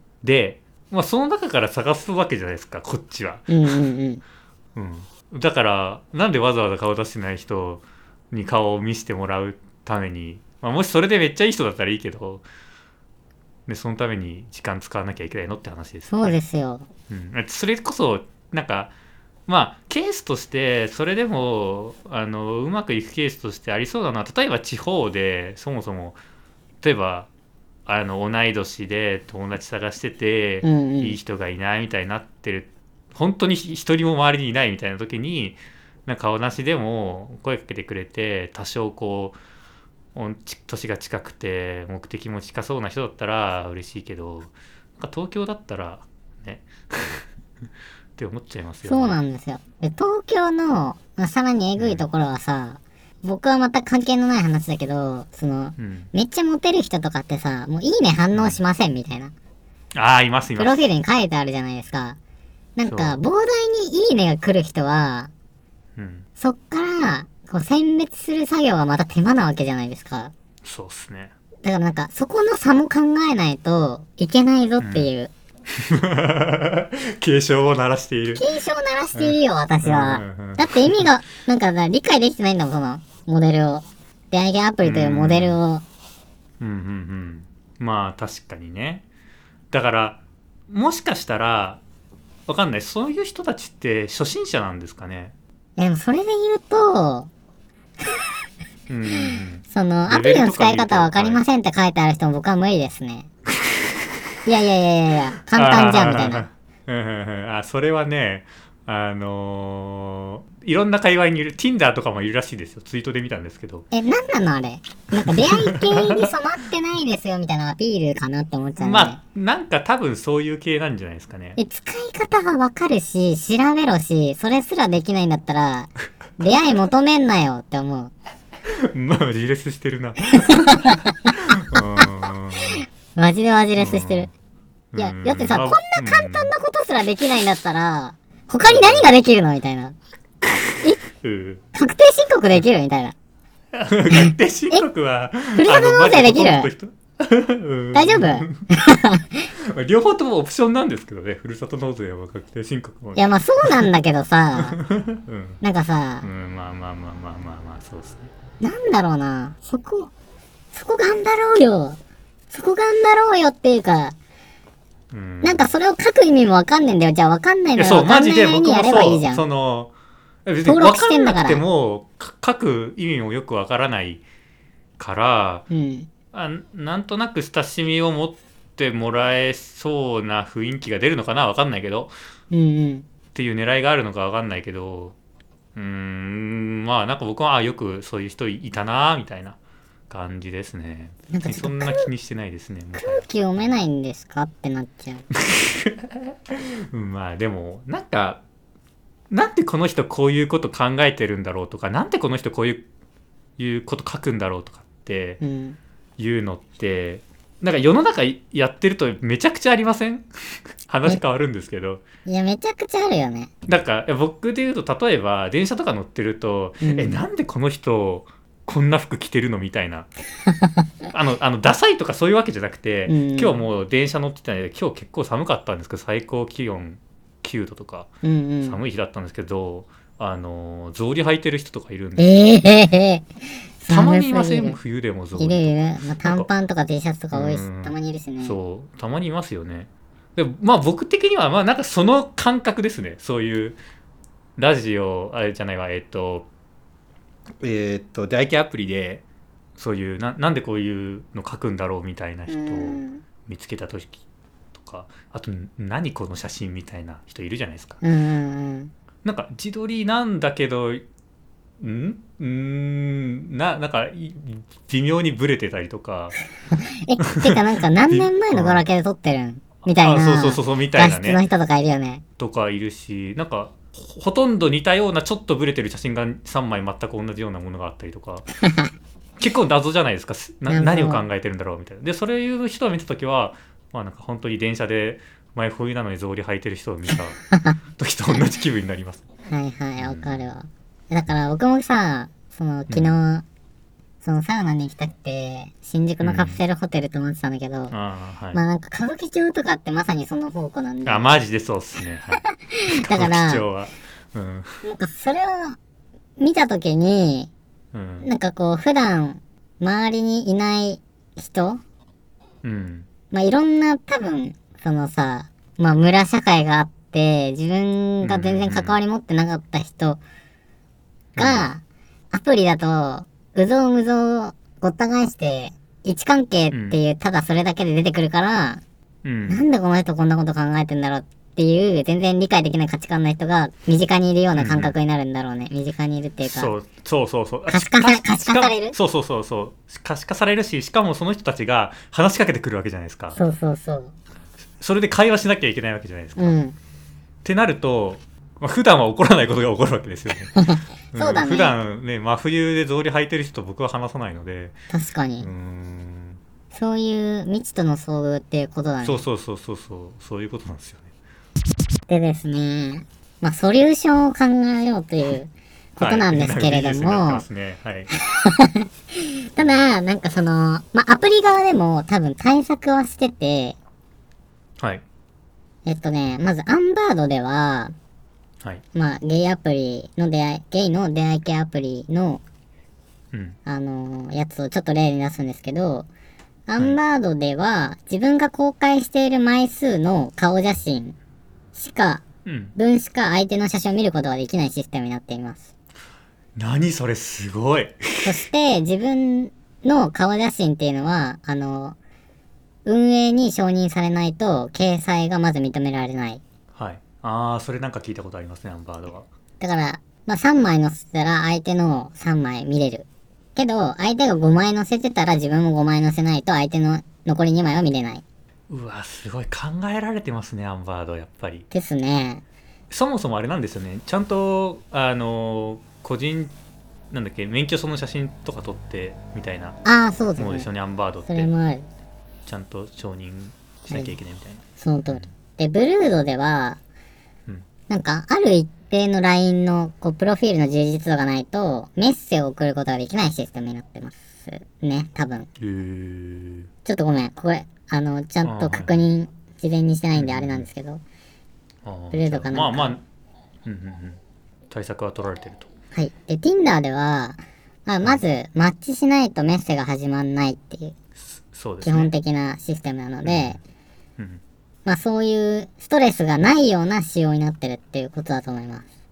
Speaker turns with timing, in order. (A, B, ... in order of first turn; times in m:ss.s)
0:00.2-0:03.8 A
0:03.5-0:04.2 B
0:04.7-0:12.4 A
0:13.7-0:16.4 A
0:16.1-0:16.9 B
0:17.1-0:18.9 A
0:19.5-0:26.2 A
0:26.8-0:27.3 A
0:27.8-0:39.4 A
0:30.6-0:31.2 B
0:40.1-0:47.2 A
0:48.2-0:49.2 A
0:48.8-0:59.3 B
0:51.8-0:52.0 A
0:55.8-0:56.1 A
0:58.3-0:58.6 A
0:59.9-1:00.8 A
1:00.6-1:02.2 B
1:02.8-1:05.3 B
1:02.9-1:03.2 A
1:06.0-1:06.2 A
1:06.4-1:10.3 B
1:10.6-1:11.3 A
1:11.6-1:15.3 B
1:14.8-1:15.1 A
1:15.7-1:18.4 A
1:18.4-1:25.8 B
1:19.1-1:21.1 A
1:24.8-1:25.6 A
1:26.6-1:29.0 A
1:29.7-1:31.8 A
1:32.5-1:35.3 A
1:35.8-1:37.3 B
1:38.9-1:41.4 A
1:39.1-1:43.3 B
1:43.6-1:44.1 A
1:44.4-1:46.4 B
1:45.5-1:53.8 A
1:53.9-1:59.2 B
1:55.2-1:56.3 A
1:58.8-2:01.6 A
2:01.6-2:08.1 B
2:08.7-2:10.8 A
2:10.3-2:12.0 B
2:11.4-2:12.8 A
2:12.6-2:14.3 B
2:13.8-2:14.3 A
2:14.9-2:16.5 A
2:15.0-2:19.9 B
2:18.6-2:19.1 A
2:20.4-2:21.6 A
2:21.7-2:23.1 B
2:23.7-2:28.6 A
2:24.1-2:24.8 B
2:25.5-2:26.7 B
2:27.9-2:29.5 B
2:29.5-2:33.9 A
2:33.2-2:34.8 B
2:34.6-2:35.6 A
2:35.6-2:36.3 B
2:36.2-2:38.3 A
2:38.6-2:40.1 B
2:40.7-2:42.0 B
2:42.5-2:44.1 B
2:45.1-2:45.7 A
2:45.4-2:49.4 B
2:47.8-2:49.9 A
2:50.4-2:54.2 A
2:50.6-2:51.6 B
2:55.0-2:55.7 A
2:55.7-2:56.1 B
2:56.3-3:02.1 A
3:02.5-3:03.0 B
3:03.3-3:05.1 A
3:05.7-3:09.6 A
3:10.1-3:13.2 A
3:11.3-3:12.1 B
3:12.9-3:15.2 B
3:15.3-3:18.4 A
3:19.3-3:22.8 A
3:23.6-3:25.4 A
3:25.4-3:25.8 B
3:26.2-3:30.3 A
3:30.8-3:32.0 A
3:32.2-3:33.5 B
3:33.7-3:40.1 A
3:36.8-3:37.2 B
3:40.5-3:40.8 B
3:41.1-3:48.1 A
3:43.1-3:43.6 B
3:48.2-3:48.8 B
3:48.6-3:52.5 A
3:52.2-3:53.2 B
3:53.8-3:54.8 B
3:53.9-3:56.5 A
3:55.4-3:58.6 B
3:57.3-4:03.8 A
4:04.6-4:06.5 A
4:07.6-4:09.2 A
4:09.8-4:14.2 A
4:12.5-4:13.2 B
4:14.7-4:18.0 A
4:18.0-4:18.9 B
4:19.2-4:21.0 A
4:21.8-4:26.3 A
4:26.7-4:32.2 B
4:27.3-4:28.8 A
4:29.8-4:31.4 A
4:32.4-4:38.4 A
4:38.6-4:38.9 B
4:39.4-4:47.4 A
4:40.7-4:41.2 B
4:47.5-4:47.8 B
4:48.0-4:49.2 A
4:49.5-4:53.4 B
4:50.0-4:50.5 A
4:52.9-4:53.2 A
4:54.2-4:57.9 B
4:56.2-4:56.6 A
4:57.9-4:58.6 A
4:58.5-5:01.4 B
5:01.0-5:04.8 A
5:02.4-5:03.6 B
5:04.8-5:05.8 B
5:06.4-5:07.5 B
5:07.9-5:08.3 A
5:08.2-5:11.8 B
5:12.6-5:13.1 A
5:13.3-5:20.2 B
5:18.2-5:19.0 A
5:21.3-5:21.6 A
5:21.4-5:21.8 B
5:22.3-5:28.8 B
5:26.7-5:27.0 A
5:29.2-5:29.6 A
5:29.5-5:36.7 B
5:34.6-5:34.9 A
5:36.4-5:43.4 A
5:37.7-5:39.0 B
5:43.4-5:44.1 B
5:44.8-5:46.6 A
5:46.4-5:46.7 B
5:47.4-5:50.5 A
5:50.5-5:51.7 B
5:51.1-5:54.7 A
5:54.9-5:55.5 B
5:55.4-5:56.4 A
5:56.7-5:59.2 B
5:59.0-6:01.1 A
6:02.1-6:07.4 B
6:06.0-6:08.1 A
6:08.2-6:13.8 B
6:15.8-6:17.9 B
6:18.9-6:22.4 B
6:23.3-6:23.6 A
6:23.6-6:26.1 B
6:26.7-6:31.2 B
6:31.7-6:32.2 B
6:32.4-6:32.7 A
6:32.8-6:35.7 B
6:36.6-6:38.4 A
6:38.2-6:42.0 B
6:42.8-6:46.4 B
6:46.7-6:49.3 A
6:49.6-6:58.2 B
6:58.7-7:01.7 A
7:01.7-7:02.4 B
7:02.9-7:06.5 A
7:07.1-7:09.8 A
7:09.8-7:10.7 B
7:10.4-7:11.5 A
7:11.3-7:11.8 B
7:12.4-7:15.3 A
7:13.9-7:14.1 B
7:14.8-7:16.8 B
7:17.9-7:25.5 B
7:25.6-7:26.7 A
7:26.8-7:31.0 B
7:28.4-7:29.1 A
7:30.1-7:30.7 A
7:31.8-7:33.0 A
7:32.1-7:32.9 B
7:33.6-7:34.2 A
7:34.7-7:35.7 A
7:35.9-7:40.9 B
7:41.2-7:42.1 A
7:41.8-7:43.6 B
7:43.2-7:43.6 A
7:44.8-7:48.8 B